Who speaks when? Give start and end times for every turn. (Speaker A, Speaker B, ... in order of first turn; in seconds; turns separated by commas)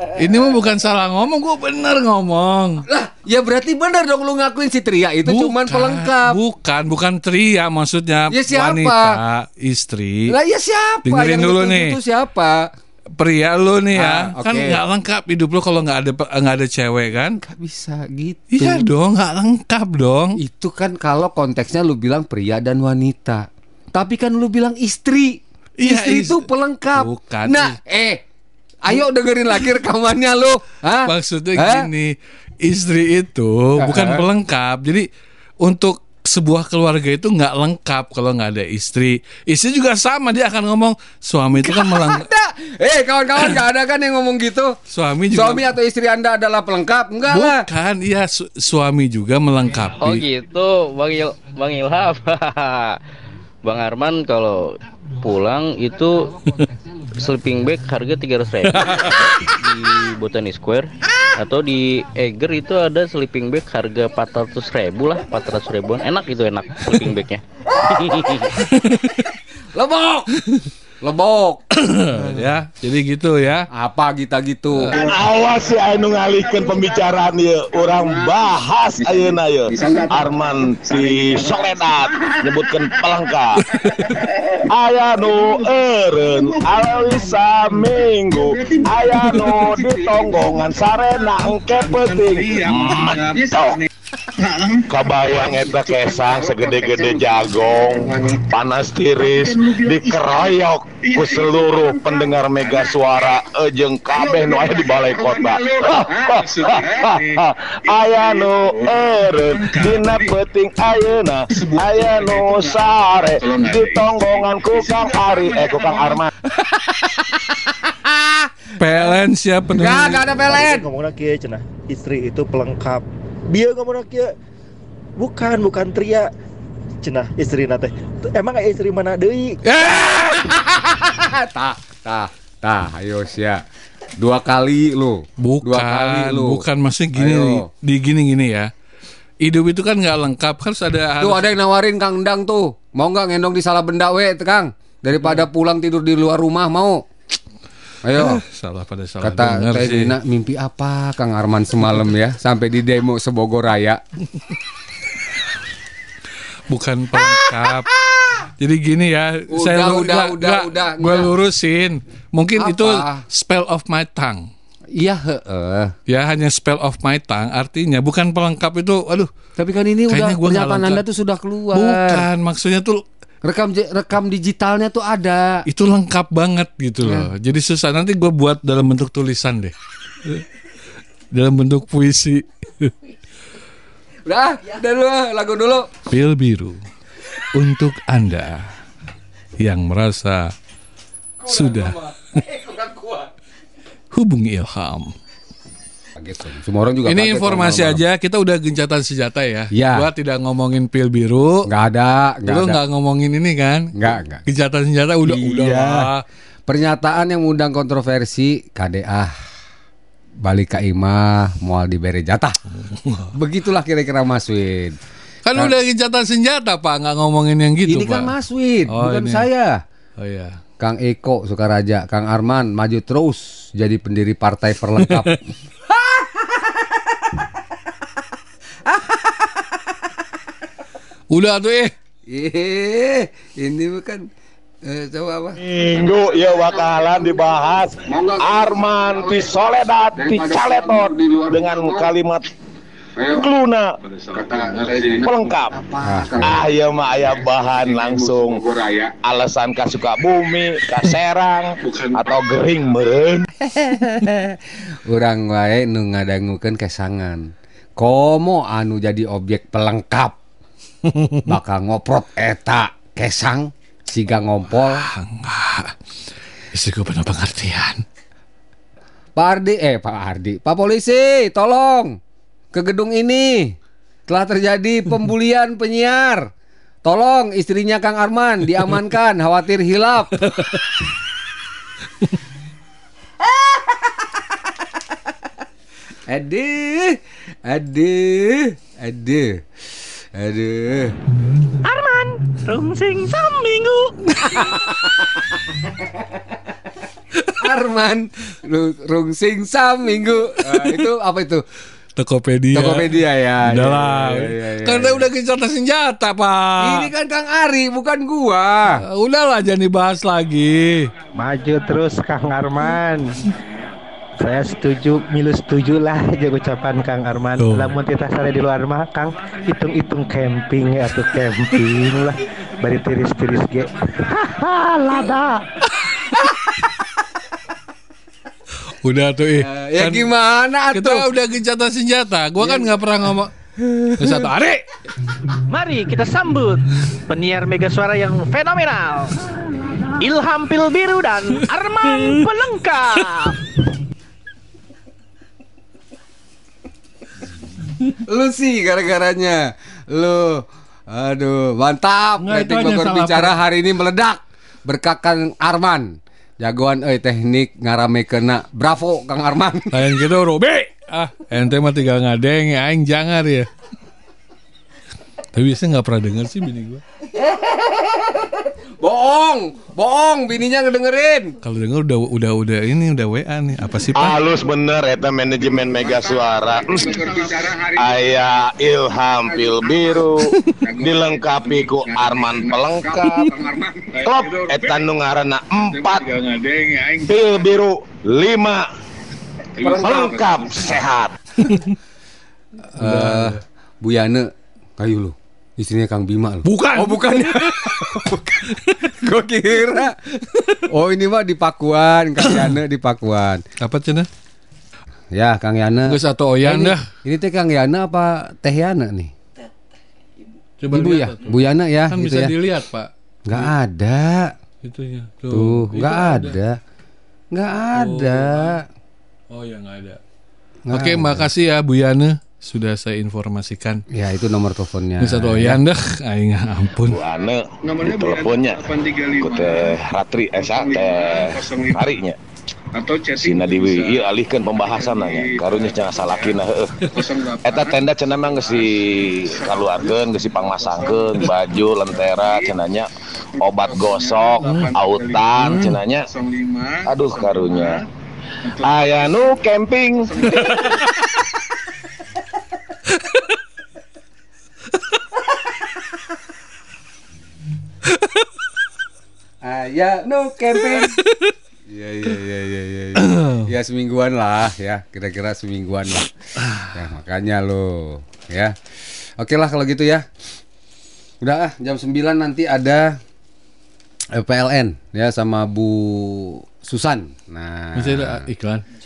Speaker A: 0.2-2.8, Speaker B: 2.9-6.4, Speaker A: 5.2-10.3, Speaker B: 8.3-9.2, Speaker B: 10.3-12.7, Speaker A: 11.0-12.0, Speaker A: 13.2-17.4, Speaker B: 13.9-14.8, Speaker B: 17.4-18.9, Speaker A: 18.5-20.4, Speaker B: 20.4-28.2, Speaker A: 25.8-27.8, Speaker B: 28.8-31.9, Speaker A: 31.1-35.0, Speaker B: 33.8-34.2, Speaker A: 35.6-42.2, Speaker B: 41.6-44.8, Speaker A: 44.9-45.7, Speaker B: 45.3-47.6, Speaker A: 47.3-50.2, Speaker C: 50.0-53.0, Speaker C: 53.6-56.3, Speaker C: 57.1-68.5, Speaker A: 58.7-59.3, Speaker A: 68.7-69.3, Speaker B: 69.7-70.3, Speaker B: 71.0-72.5, Speaker A: 71.8-73.7, Speaker B: 73.7-74.9, Speaker D: 74.9-83.6, Speaker A: 83.7-84.2, Speaker D: 84.7-93.8, Speaker D: 94.8-116.3, Speaker B: 116.5-118.5, Speaker A: 118.8-120.2, Speaker B: 119.7-120.8, Speaker E: 120.5-124.3, Speaker E: 125.2-126.3, Speaker E: 127.0-129.6, Speaker A: 129.7-130.2, Speaker B: 129.7-133.6, Speaker B: 134.2-137.7, Speaker A: 135.4-138.7, Speaker A: 139.4-141.5, Speaker B: 141.2-147.0, Speaker B: 148.0-148.4, Speaker A: 148.1-150.1, Speaker B: 149.2-154.0, Speaker A: 156.7-157.9, Speaker B: 157.9-158.3, Speaker A: 158.6-164.5, Speaker B: 159.5-161.3, Speaker B: 162.6-163.2, Speaker B: 164.9-165.9, Speaker A: 166.1-169.3, Speaker B: 169.6-172.2, Speaker A: 170.1-171.0, Speaker A: 171.7-173.0, Speaker B: 173.4-175.6, Speaker A: 175.7-179.7, Speaker B: 177.0-177.3, Speaker A: 181.3-182.9, Speaker B: 184.2-185.9, Speaker A: 186.1-186.8, Speaker A: 187.5-188.7, Speaker A: 189.6-190.5, Speaker A: 191.4-192.0, Speaker B: 191.5-193.3, Speaker A: 194.1-195.1, Speaker B: 196.1-198.0, Speaker A: 197.1-201.7, Speaker B: 199.7-200.1, Speaker B: 201.7-202.8, Speaker A: 202.4-203.9, Speaker B: 203.9-204.4, Speaker A: 204.4-206.2, Speaker B: 205.2-206.1, Speaker B: 206.7-209.3, Speaker B: 210.4-212.6, Speaker A: 212.8-213.3, Speaker B: 213.3-214.9, Speaker A: 215.4-218.3, Speaker B: 217.9-219.8, Speaker A: 218.9-219.5, Speaker A: 220.2-220.6, Speaker B: 220.8-227.4, Speaker A: 225.0-225.3, Speaker B: 228.8-229.9, Speaker A: 231.3-231.9, Speaker B: 232.3-234.2, Speaker B: 234.8-235.6, Speaker D: 235.6-242.5, Speaker D: 243.2-243.9, Speaker D: 244.8-253.5, Speaker B: 246.0-246.5, Speaker B: 253.6-260.4, Speaker A: 261.1-261.4, Speaker B: 261.4-265.0, Speaker A: 265.0-265.9, Speaker A: 266.7-268.0, Speaker B: 269.4-272.2, Speaker B: 272.7-273.7, Speaker B: 274.3-276.5, Speaker B: 277.0-280.5, Speaker B: 283.4-284.4, Speaker B: 286.3-289.6, Speaker B: 290.3-291.2, Speaker F: 291.8-294.1, Speaker B: 294.5-295.4, Speaker B: 297.6-301.6, Speaker A: 300.7-301.0, Speaker A: 302.2-307.1, Speaker B: 302.7-305.3, Speaker B: 306.8-309.0, Speaker A: 309.0-311.1, Speaker G: 311.4-313.3, Speaker G: 314.4-325.7, Speaker A: 317.6-317.9, Speaker A: 326.0-326.3, Speaker A: 329.0-330.3, Speaker B: 329.5-331.3, Speaker A: 330.9-333.5, Speaker B: 332.6-332.9, Speaker B: 333.8-334.5, Speaker A: 334.2-334.8, Speaker F: 335.7-339.5, Speaker F: 340.2-343.6, Speaker B: 348.2-360.1, Speaker A: 352.4-353.6, Speaker A: 359.9-363.7, Speaker A: 365.5-367.0, Speaker B: 367.3-371.6, Speaker A: 371.6-374.4, Speaker D: 374.1-386.5, Speaker D: 387.1-388.8, Speaker D: 389.8-391.3, Speaker A: 391.6-391.9, Speaker B: 392.9-400.2, Speaker A: 393.0-393.6, Speaker A: 396.6-398.0, Speaker A: 400.5-400.8, Speaker B: 400.9-403.6, Speaker A: 403.8-404.3, Speaker B: 405.3-409.3, Speaker A: 406.0-407.1, Speaker A: 410.8-413.7, Speaker B: 410.9-412.5, Speaker B: 413.4-414.5, Speaker A: 414.8-416.5, Speaker B: 415.5-416.8, Speaker B: 417.5-418.9, Speaker A: 417.9-418.7, Speaker A: 419.5-420.2, Speaker B: 420.9-421.5, Speaker A: 420.9-424.0, Speaker B: 424.1-425.8, Speaker A: 425.2-427.2, Speaker D: 427.1-432.4, Speaker D: 433.3-446.3, Speaker A: 444.6-444.9, Speaker A: 445.7-445.9, Speaker D: 447.0-448.1, Speaker D: 448.8-450.7, Speaker B: 459.6-461.2, Speaker A: 461.2-461.5, Speaker B: 461.9-468.8, Speaker A: 463.2-463.7, Speaker A: 466.6-466.9, Speaker B: 469.4-470.3, Speaker B: 471.4-473.2, Speaker B: 474.3-478.5, Speaker A: 477.9-478.8